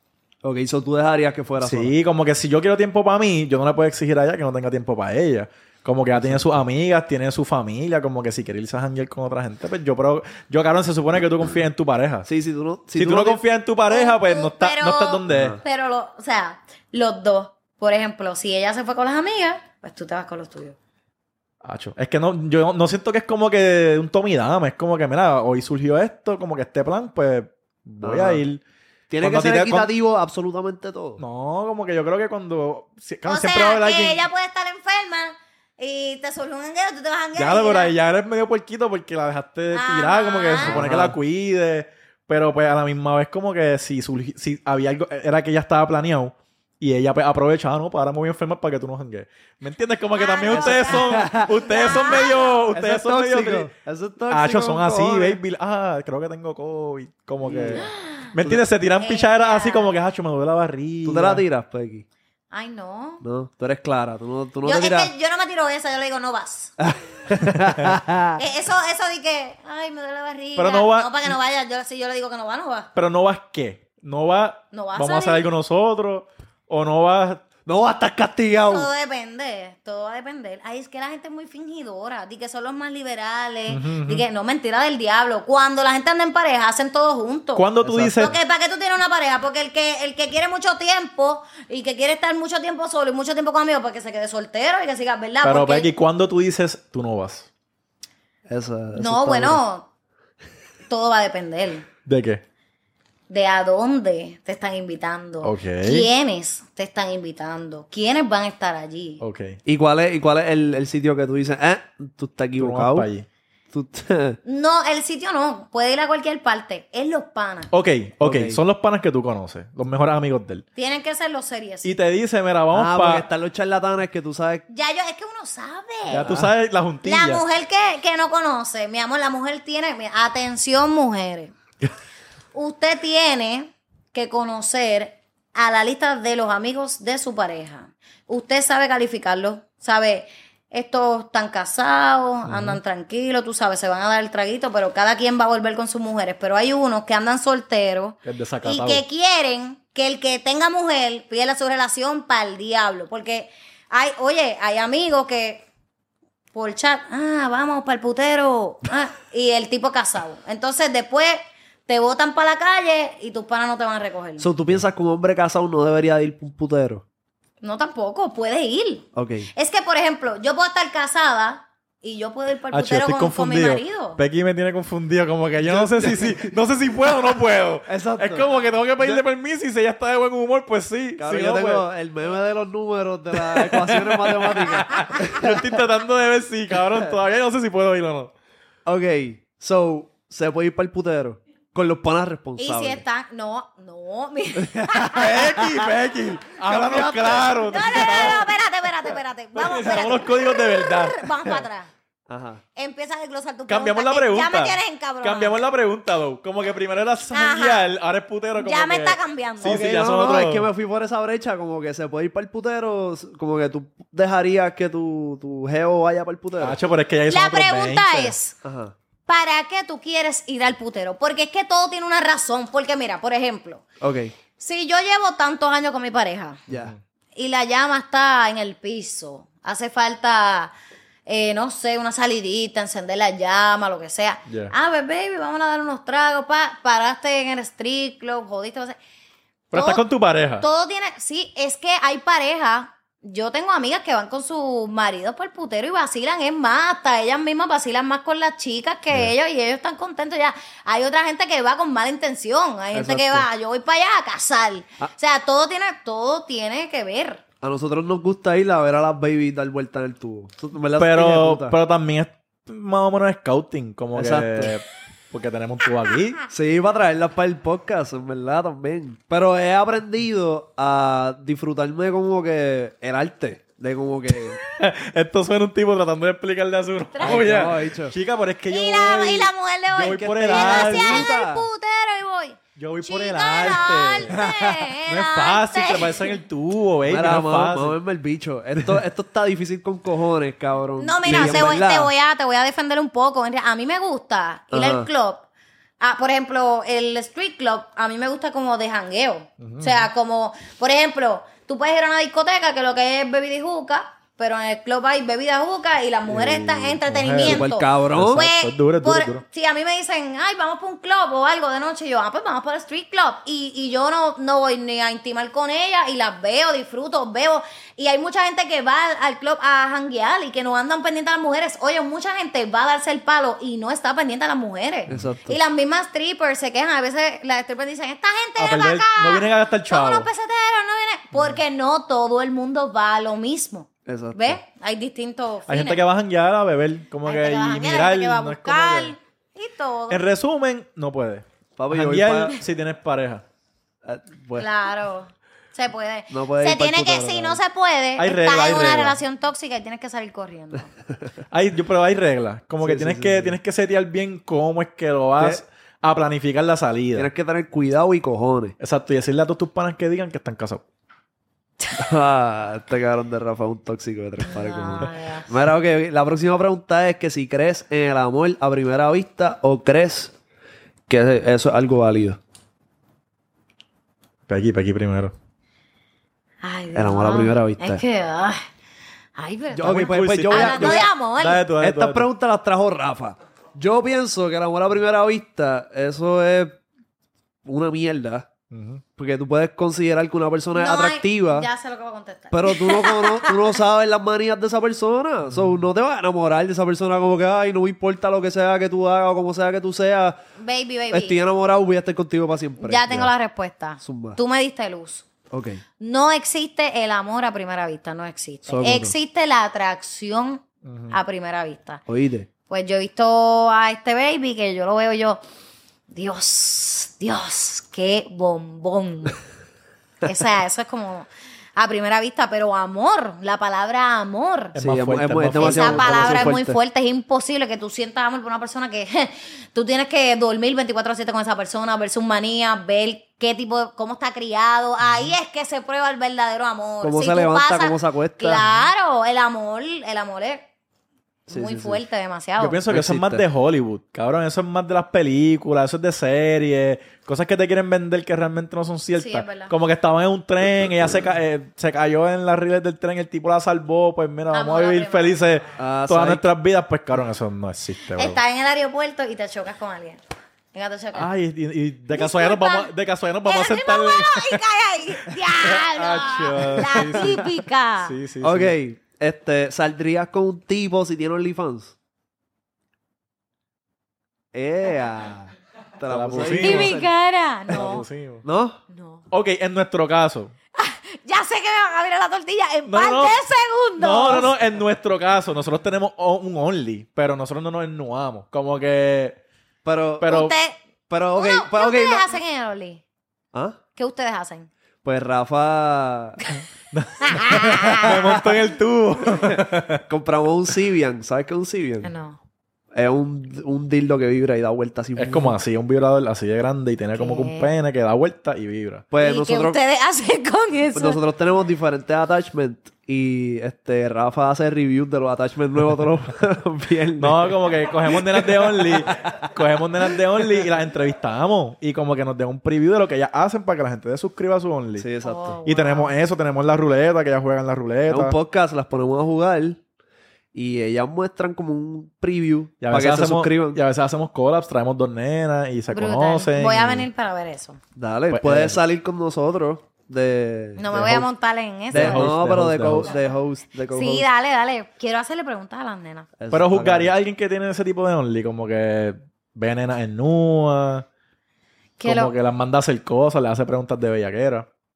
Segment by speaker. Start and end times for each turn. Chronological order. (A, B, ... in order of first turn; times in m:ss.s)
0:00.4-0:01.9 A
0:01.6-0:12.3 B
0:06.1-0:06.5 A
0:12.2-0:13.4 A
0:12.9-0:15.6 B
0:13.9-0:20.8 C
0:15.3-0:15.6 A
0:21.6-0:28.6 B
0:28.0-0:28.4 A
0:29.1-0:31.2 A
0:29.2-0:29.9 B
0:31.2-0:34.2 B
0:33.2-0:37.9 C
0:37.3-0:53.7 B
0:39.7-0:40.8 C
0:40.6-0:41.2 A
0:50.1-0:52.6 C
0:50.5-0:51.5 A
0:52.7-0:55.4 A
0:54.3-1:01.4 B
0:57.4-0:57.9 A
0:57.8-0:58.3 C
0:59.0-0:59.9 C
1:01.0-1:02.0 A
1:02.5-1:03.2 C
1:03.2-1:05.1 A
1:04.6-1:06.7 C
1:06.8-1:08.4 A
1:08.4-1:12.9 C
1:10.6-1:11.3 B
1:12.9-1:17.4 B
1:14.7-1:15.4 C
1:17.6-1:18.9 A
1:18.6-1:35.9 C
1:23.7-1:24.2 B
1:27.6-1:28.4 B
1:27.8-1:28.3 A
1:35.4-1:37.5 B
1:38.5-1:39.6 A
1:39.0-1:39.9 C
1:40.9-1:41.8 C
1:42.0-1:42.4 B
1:43.3-1:49.2 C
1:45.4-1:46.1 B
1:49.2-1:49.6 B
1:49.6-1:53.1 A
1:52.6-1:53.3 B
1:53.7-1:54.4 A
1:54.4-1:57.7 C
1:57.7-2:00.6 B
1:58.2-1:58.6 A
2:00.8-2:01.9 C
2:01.8-2:03.2 B
2:02.7-2:04.6 A
2:04.7-2:06.3 C
2:06.1-2:07.4 B
2:06.2-2:06.5 A
2:07.0-2:11.5 C
2:12.5-2:35.6 C
2:22.5-2:22.8 B
2:28.2-2:29.0 B
2:36.5-2:44.4 C
2:44.4-2:47.0 A
2:47.6-2:54.2 C
2:49.1-2:49.5 A
2:52.7-3:01.9 B
2:55.6-2:56.5 A
2:57.9-2:59.2 A
3:01.2-3:05.6 A
3:03.5-3:08.3 B
3:08.8-3:13.0 A
3:12.6-3:15.4 C
3:14.6-3:15.4 A
3:15.1-3:18.5 B
3:16.6-3:18.2 A
3:17.5-3:21.9 C
3:19.5-3:21.6 B
3:22.3-3:22.6 A
3:22.8-3:25.6 C
3:23.7-3:30.7 B
3:27.3-3:27.9 C
3:28.6-3:29.8 C
3:29.6-3:36.8 A
3:36.6-3:38.4 B
3:37.3-3:38.6 C
3:38.6-3:38.9 A
3:39.3-3:43.8 C
3:44.0-3:44.3 A
3:44.6-3:46.6 C
3:46.7-3:46.9 A
3:47.3-3:50.7 C
3:51.2-3:59.0 C
3:54.5-3:54.7 B
3:59.7-4:00.0 C
3:59.7-4:00.6 B
4:00.6-4:17.4 C
4:12.9-4:13.4 A
4:17.6-4:21.8 A
4:21.0-4:26.4 B
4:24.1-4:24.7 A
4:26.5-4:34.6 A
4:34.8-4:41.3 B
4:37.1-4:37.6 C
4:37.2-4:38.1 A
4:38.7-4:46.4 C
4:40.0-4:41.6 A
4:42.8-4:44.3 B
4:44.3-4:44.9 A
4:45.1-4:47.9 B
4:47.1-4:52.1 A
4:51.0-4:55.4 C
4:51.3-4:51.8 B
4:54.7-4:55.1 A
4:56.0-5:36.0 C
4:59.6-5:00.1 B
5:06.3-5:09.4 B
5:07.4-5:08.4 A
5:25.1-5:25.6 A
5:28.6-5:30.3 B
5:34.0-5:34.6 A
5:35.7-5:39.1 B
5:37.2-5:40.2 C
5:40.1-5:43.4 B
5:41.8-5:42.6 A
5:44.0-5:44.7 A
5:44.6-5:50.9 C
5:46.3-5:47.6 A
5:48.2-5:49.2 B
5:51.5-5:57.3 B
5:52.8-5:53.6 A
5:57.1-5:58.7 A
5:58.8-6:00.8 B
6:01.9-6:10.3 A
6:04.4-6:05.5 C
6:11.1-6:12.4 A
6:14.5-6:15.3 B
6:16.6-6:18.6 C
6:16.9-6:18.0 A
6:19.4-6:21.6 C
6:19.7-6:21.1 A
6:19.8-6:22.3 B
6:21.8-6:26.8 A
6:27.6-6:28.5 A
6:28.7-6:29.0 B
6:29.2-6:31.7 A
6:30.7-6:33.6 C
6:32.5-6:40.4 A
6:35.4-6:35.8 B
6:40.6-6:41.4 C
6:41.1-6:43.3 A
6:42.8-6:45.3 C
6:44.0-6:44.4 A
6:45.5-6:45.8 A
6:46.0-6:52.0 C
6:48.7-6:49.1 A
6:50.8-6:51.2 B
6:52.1-6:52.5 A
6:52.7-6:55.4 C
6:56.1-6:59.4 C
7:00.2-7:04.7 C
7:04.7-7:06.6 B
7:04.8-7:06.8 A
7:05.6-7:20.6 C
7:15.0-7:15.3 B
7:17.0-7:18.6 A
7:21.5-7:22.0 A
7:21.5-7:22.8 C
7:22.6-7:38.4 B
7:22.9-7:23.4 A
7:29.2-7:29.7 C
7:34.5-7:35.4 C
7:35.8-7:36.4 A
7:38.1-7:40.2 C
7:40.7-7:41.3 C
7:41.1-7:44.6 B
7:42.1-7:42.9 C
7:43.4-7:48.1 C
7:45.6-7:47.5 B
7:48.0-7:48.8 B
7:48.4-7:51.9 A
7:54.5-7:57.1 A
7:56.1-7:57.0 B
7:56.4-7:58.0 C
7:57.7-7:58.4 B
7:58.4-7:58.8 A
7:58.9-7:59.2 C
7:59.3-8:00.5 B
8:00.8-8:04.5 C
8:02.9-8:03.4 B
8:04.0-8:09.4 B
8:09.8-8:10.4 A
8:10.2-8:10.6 B
8:10.2-8:10.8 C
8:11.1-8:12.3 A
8:11.3-8:13.0 C
8:13.5-8:13.8 A
8:14.0-8:14.7 C
8:15.0-8:16.4 A
8:16.9-8:20.0 B
8:17.2-8:18.1 C
8:19.2-8:22.1 A
8:22.0-8:22.4 C
8:22.9-8:25.6 A
8:25.2-8:29.0 B
8:27.2-8:27.7 C
8:29.1-8:29.8 A
8:29.2-8:31.2 C
8:30.9-8:37.5 A
8:37.2-8:45.1 B
8:38.1-8:39.4 A
8:45.0-8:45.6 A
8:45.2-8:46.1 C
8:45.6-8:48.4 B
8:48.1-8:49.8 A
8:50.5-8:53.8 A
8:52.8-8:57.1 B
8:55.9-8:57.8 C
8:57.9-9:01.3 A
8:58.3-8:58.8 B
9:00.8-9:02.3 C
9:01.9-9:04.2 A
9:01.9-9:03.1 B
9:03.9-9:06.3 C
9:06.4-9:07.1 A
9:06.5-9:11.1 B
9:12.0-9:12.3 C
9:12.0-9:14.7 B